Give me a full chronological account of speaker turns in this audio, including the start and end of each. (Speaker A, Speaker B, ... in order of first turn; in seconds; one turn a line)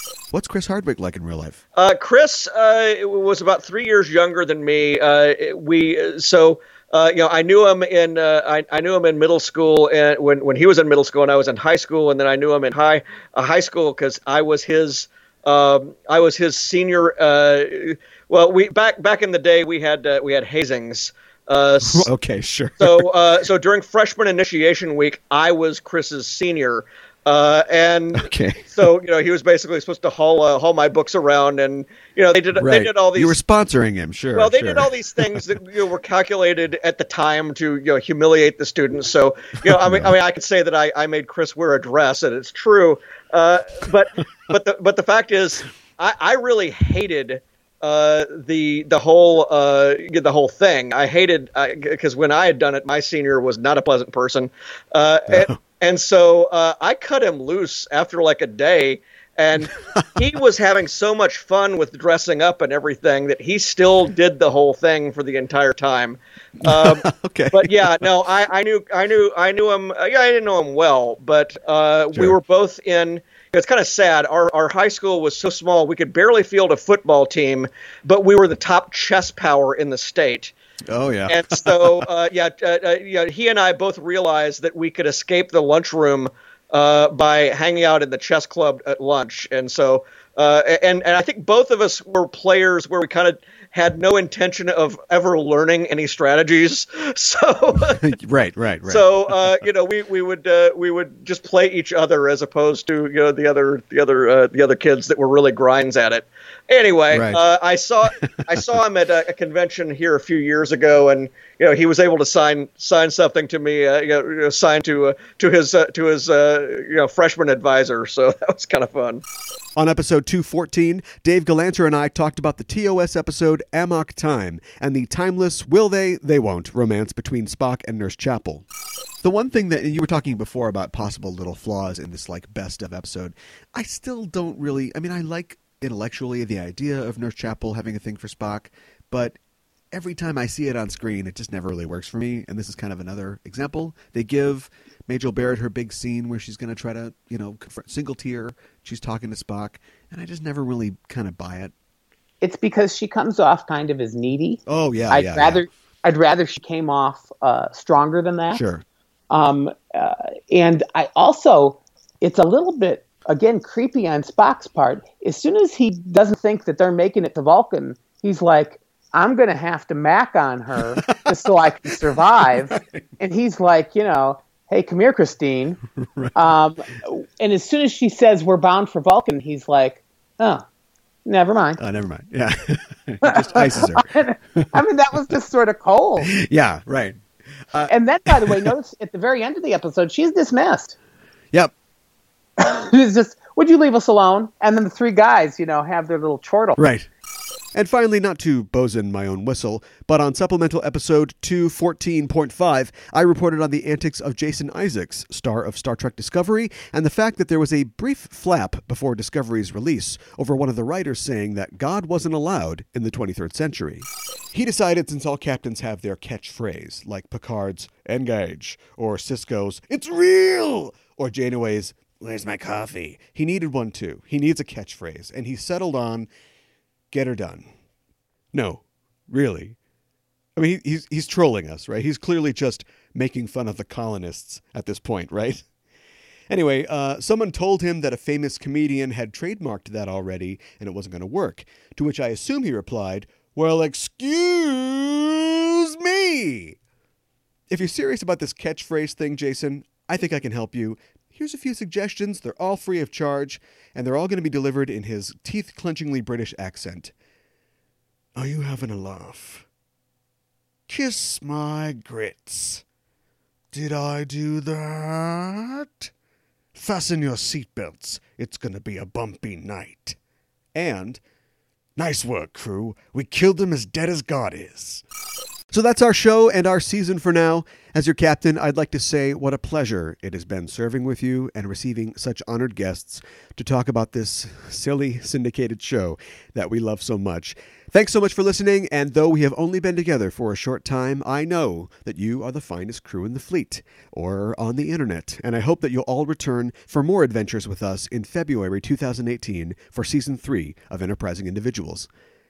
Speaker A: 0.3-1.6
Speaker B: 1.8-22.1
Speaker A: 21.8-23.1
Speaker B: 22.8-33.4
Speaker A: 28.1-28.9
Speaker A: 32.5-35.4
Speaker B: 34.3-80.5
Speaker A: 39.8-40.1
Speaker A: 55.3-55.5
Speaker A: 59.6-60.2
Speaker A: 66.6-68.1
Speaker A: 80.9-81.9
Speaker B: 81.3-98.0
Speaker A: 97.8-99.1
Speaker B: 98.8-119.2
Speaker A: 107.1-107.4
Speaker A: 108.2-108.5
Speaker A: 119.8-128.6
Speaker A: 129.2-139.3
Speaker A: 139.9-151.7
Speaker C: 152.4-158.6
Speaker A: 154.7-155.6
Speaker A: 158.5-158.8
Speaker C: 159.3-175.8
Speaker A: 171.0-173.0
Speaker A: 175.9-176.5
Speaker C: 176.3-180.6
Speaker C: 181.2-181.8
Speaker A: 181.8-184.7
Speaker C: 183.2-186.3
Speaker A: 186.2-187.2
Speaker A: 187.7-188.7
Speaker C: 187.9-190.9
Speaker C: 192.6-196.8
Speaker A: 196.8-197.1
Speaker A: 197.7-226.3
Speaker A: 227.1-227.7
Speaker A: 228.5-229.8
Speaker A: 230.6-235.6
Speaker A: 236.5-246.8
Speaker A: 247.7-257.1
Speaker A: 258.4-259.6
Speaker A: 260.9-262.8
Speaker A: 263.7-266.1
Speaker A: 266.7-270.2
Speaker A: 270.7-271.2
Speaker A: 272.0-275.0
Speaker A: 275.7-302.1